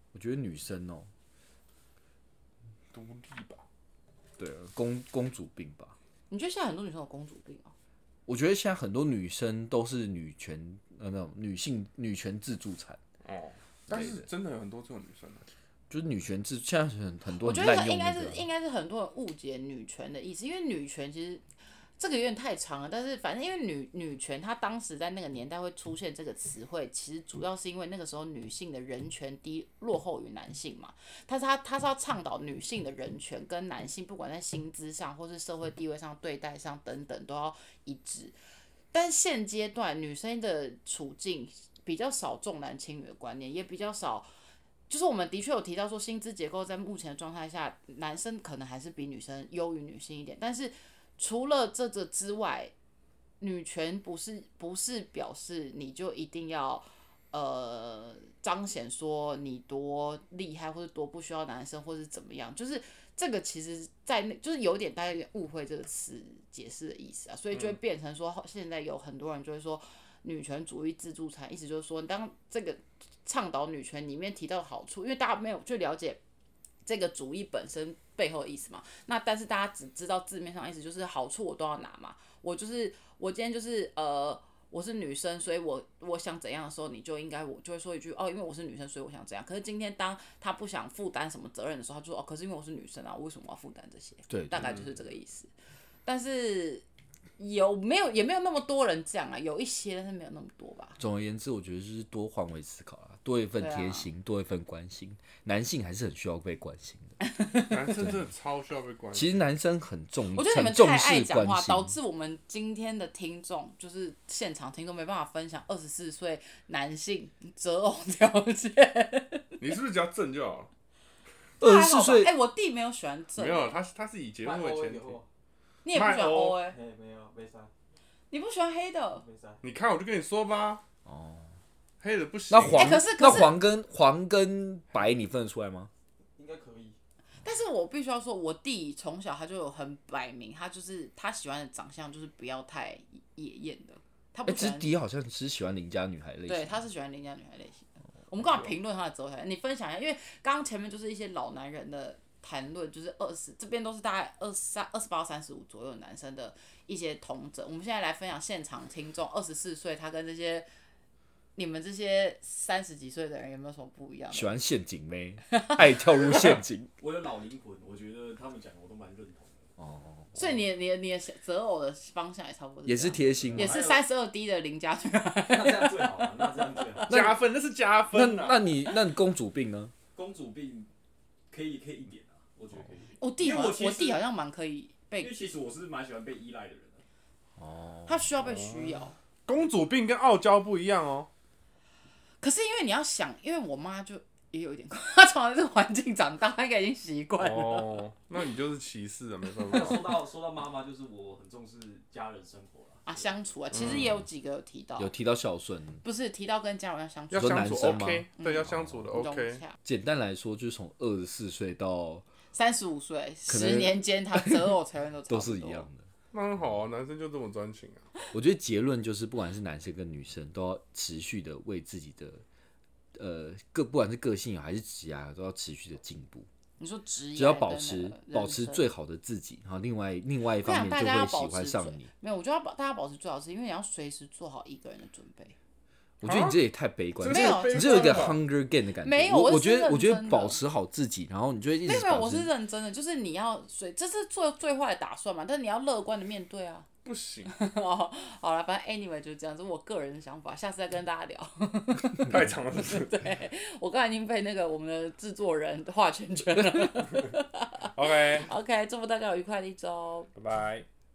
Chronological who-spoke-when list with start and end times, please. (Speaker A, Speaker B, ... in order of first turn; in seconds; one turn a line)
Speaker A: 0.1-1.1
Speaker B: 2.9-3.6
Speaker A: 4.4-5.9
Speaker C: 6.3-7.7
Speaker A: 8.3-13.0
Speaker B: 13.2-15.5
Speaker A: 13.9-14.2
Speaker A: 15.9-18.4
Speaker C: 17.4-21.4
Speaker C: 22.0-38.4
Speaker C: 38.9-44.3
Speaker C: 44.9-52.7
Speaker C: 53.4-76.2
Speaker C: 76.8-95.5
Speaker A: 94.3-94.8
Speaker C: 96.0-96.8
Speaker C: 97.4-101.0
Speaker A: 101.0-107.2
Speaker C: 103.6-104.1
Speaker C: 107.3-107.8
Speaker B: 107.7-109.4
Speaker A: 109.1-112.0
Speaker C: 110.3-119.6
Speaker B: 119.6-120.7
Speaker A: 121.6-122.3
Speaker C: 121.6-123.8
Speaker B: 123.4-125.2
Speaker D: 124.4-125.2
Speaker C: 125.8-126.8
Speaker B: 125.9-126.6
Speaker D: 126.6-127.7
Speaker C: 128.3-129.2
Speaker D: 129.2-129.6
Speaker B: 129.6-130.8
Speaker A: 131.1-131.5
Speaker B: 132.0-133.0
Speaker A: 132.5-135.9
Speaker C: 132.7-133.6
Speaker D: 136.3-137.0
Speaker C: 137.4-144.9
Speaker A: 144.4-146.8
Speaker C: 146.5-160.7
Speaker C: 161.6-164.6
Speaker A: 164.3-166.9
Speaker C: 165.5-166.0
Speaker D: 167.0-169.7
Speaker A: 169.8-170.3
Speaker C: 170.3-177.0
Speaker A: 172.8-173.9
Speaker D: 173.3-174.0
Speaker D: 175.4-177.3
Speaker B: 177.1-178.6
Speaker A: 177.1-177.4
Speaker A: 178.1-179.9
Speaker D: 180.1-180.9
Speaker D: 181.5-184.2
Speaker C: 183.2-185.5
Speaker D: 185.2-187.0
Speaker A: 187.6-188.2
Speaker C: 188.1-189.2
Speaker B: 188.4-188.9
Speaker B: 189.5-191.3
Speaker C: 192.4-198.0
Speaker B: 197.4-200.2
Speaker D: 199.7-203.3
Speaker C: 203.1-205.1
Speaker B: 203.7-204.1
Speaker A: 205.0-206.0
Speaker C: 206.0-209.8
Speaker B: 207.3-209.6
Speaker A: 207.3-209.2
Speaker A: 209.8-212.2
Speaker C: 212.5-215.9
Speaker A: 213.5-214.8
Speaker A: 215.3-216.0
Speaker B: 216.3-218.1
Speaker A: 218.3-222.4
Speaker A: 223.2-226.5
Speaker C: 226.8-228.9
Speaker A: 227.3-232.1
Speaker C: 230.6-235.5
Speaker A: 236.2-242.5
Speaker B: 236.2-236.6
Speaker B: 237.2-238.4
Speaker C: 237.2-238.3
Speaker C: 239.0-240.6
Speaker C: 241.8-246.9
Speaker B: 247.0-247.5
Speaker C: 247.5-260.3
Speaker B: 252.0-253.2
Speaker B: 257.9-258.5
Speaker B: 260.3-260.9